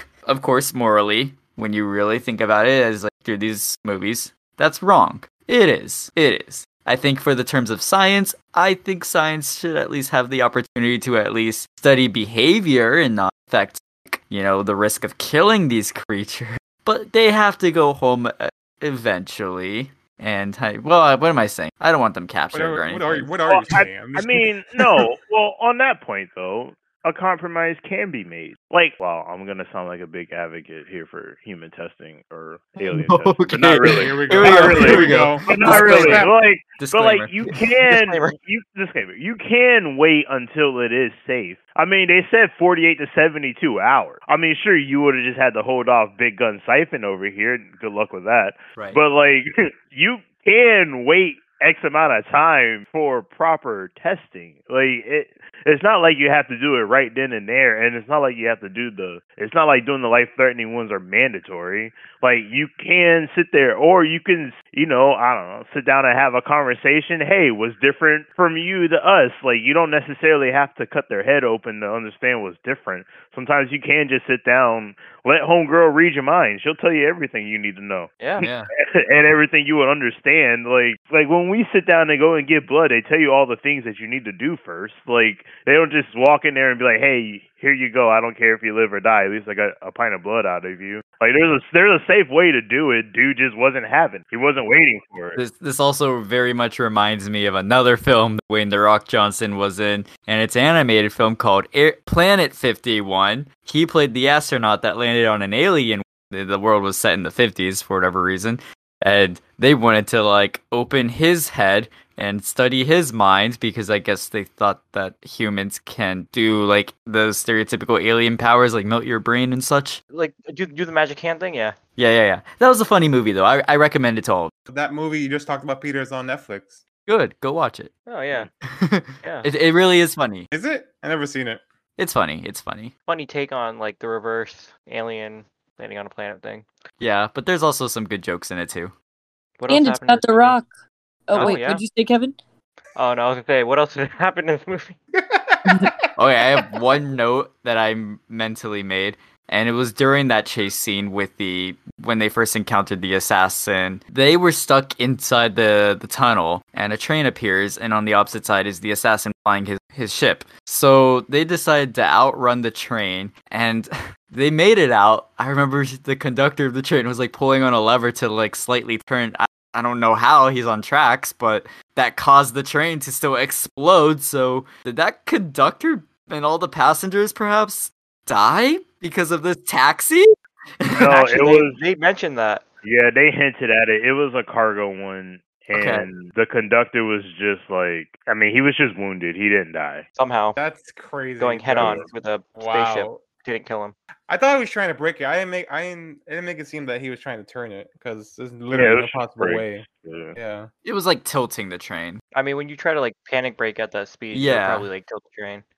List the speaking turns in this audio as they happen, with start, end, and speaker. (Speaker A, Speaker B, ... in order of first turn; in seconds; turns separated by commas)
Speaker A: 0.2-23.3, Speaker B: 22.5-24.8, Speaker C: 23.5-78.1, Speaker A: 32.8-37.4, Speaker B: 33.8-36.3, Speaker D: 37.5-38.4, Speaker A: 48.8-49.0, Speaker D: 78.2-78.5, Speaker A: 78.4-78.7, Speaker C: 78.8-95.4, Speaker A: 95.4-120.0, Speaker D: 120.1-121.8, Speaker A: 122.0-124.5, Speaker B: 124.7-126.8, Speaker A: 127.1-127.9, Speaker D: 128.1-128.5, Speaker A: 128.6-130.5, Speaker D: 129.2-129.5, Speaker B: 130.5-131.6, Speaker A: 132.0-132.9, Speaker D: 133.1-136.7, Speaker A: 137.0-138.9, Speaker D: 139.6-140.6, Speaker E: 139.7-140.7, Speaker E: 141.3-142.4, Speaker D: 141.3-141.8, Speaker D: 143.0-145.0, Speaker B: 145.1-145.9, Speaker A: 146.2-181.1, Speaker C: 180.9-181.8, Speaker D: 181.1-182.7, Speaker C: 182.8-190.1, Speaker A: 185.7-186.1, Speaker D: 190.2-190.6, Speaker B: 190.6-193.2, Speaker D: 191.4-193.9, Speaker C: 191.8-192.1, Speaker B: 194.3-199.8, Speaker C: 198.7-200.4, Speaker B: 200.4-200.7, Speaker A: 200.8-202.2, Speaker D: 202.3-205.6, Speaker A: 204.3-204.9